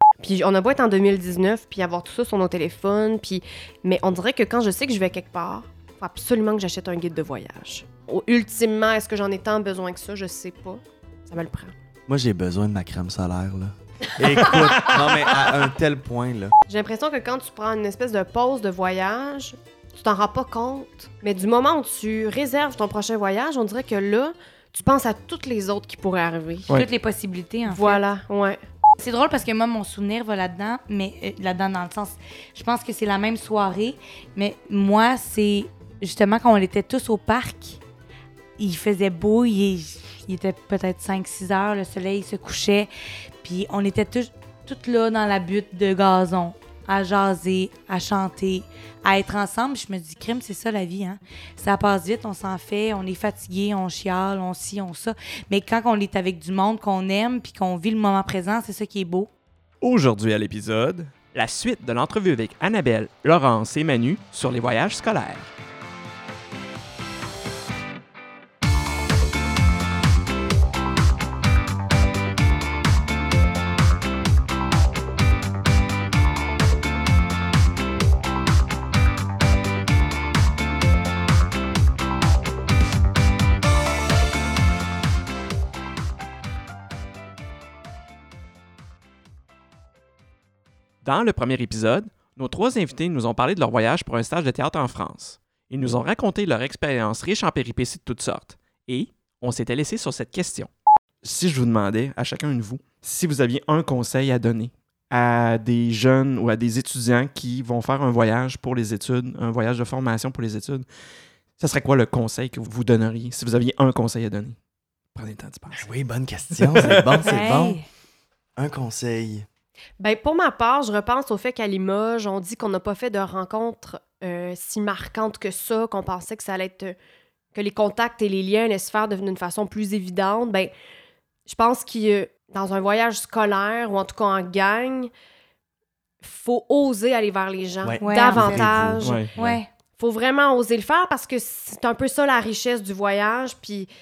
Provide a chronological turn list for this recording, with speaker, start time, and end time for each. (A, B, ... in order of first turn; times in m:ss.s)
0:00.2-0:11.7 A
0:12.1-0:16.5 B
0:14.4-0:15.2 A
0:16.7-0:26.7 A
0:26.7-0:28.0 C
0:27.7-0:28.6 A
0:29.0-0:37.8 C
0:38.6-0:42.9 C
0:43.4-0:59.3 C
0:59.8-1:05.5 D
1:31.0-1:40.7 D
1:41.2-1:50.9 D
1:51.6-1:54.6 D
1:55.1-1:55.9 D
1:55.7-1:57.8 B
1:56.5-1:57.2 D
1:57.2-1:57.9 C
1:58.6-1:59.5 B
2:00.0-2:07.0 A
2:07.5-2:10.7 A
2:11.5-2:15.1 A
2:16.2-2:19.3 A
2:17.8-2:19.6 B
2:18.0-2:18.7 C
2:19.0-2:19.3 D
2:19.3-2:19.7 C
2:20.0-2:23.9 A